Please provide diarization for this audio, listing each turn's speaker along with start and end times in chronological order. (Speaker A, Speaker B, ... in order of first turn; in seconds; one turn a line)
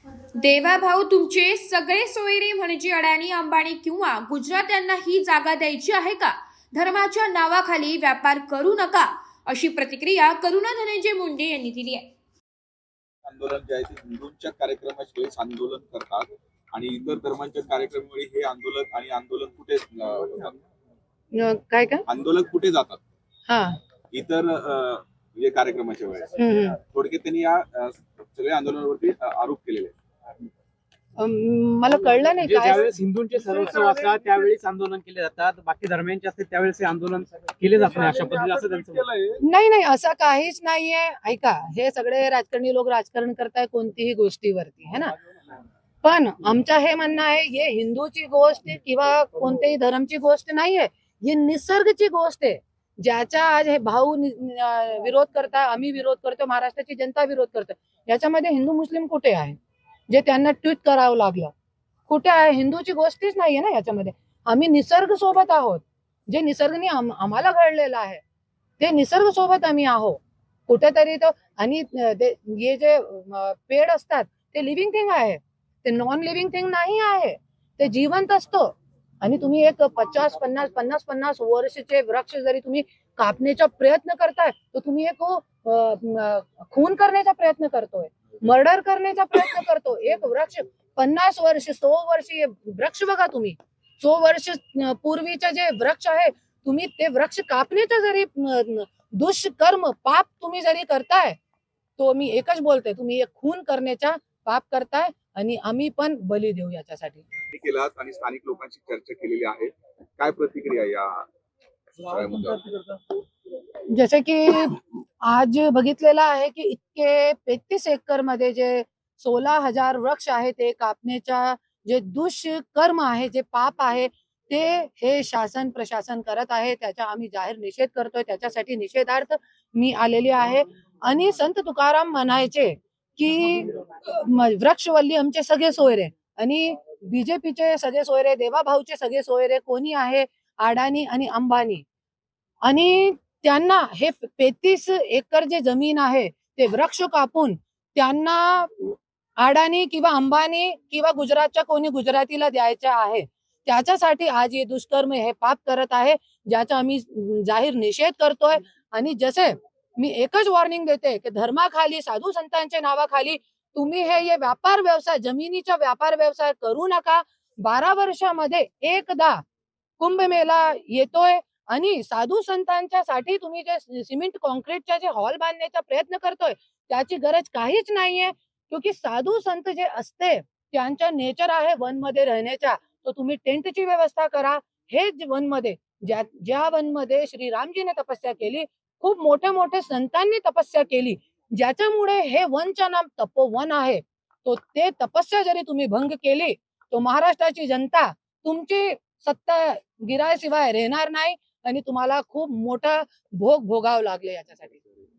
Speaker A: 0.3-12.1
Speaker B: 13.2-20.6
Speaker C: 21.4-22.0
Speaker B: 22.1-23.0
Speaker C: 23.5-23.8
Speaker B: 24.1-29.9
Speaker C: 26.4-26.8
Speaker C: 31.2-32.9
Speaker D: 32.4-39.0
Speaker B: 33.6-34.2
Speaker B: 37.8-39.4
Speaker C: 39.4-45.1
Speaker C: 46.0-59.5
Speaker C: 60.1-61.5
Speaker C: 62.1-68.2
Speaker C: 68.8-101.4
Speaker C: 102.0-107.2
Speaker B: 107.5-111.3
Speaker B: 112.0-112.8
Speaker C: 113.9-141.8
Speaker C: 142.6-169.4
Speaker C: 170.0-205.0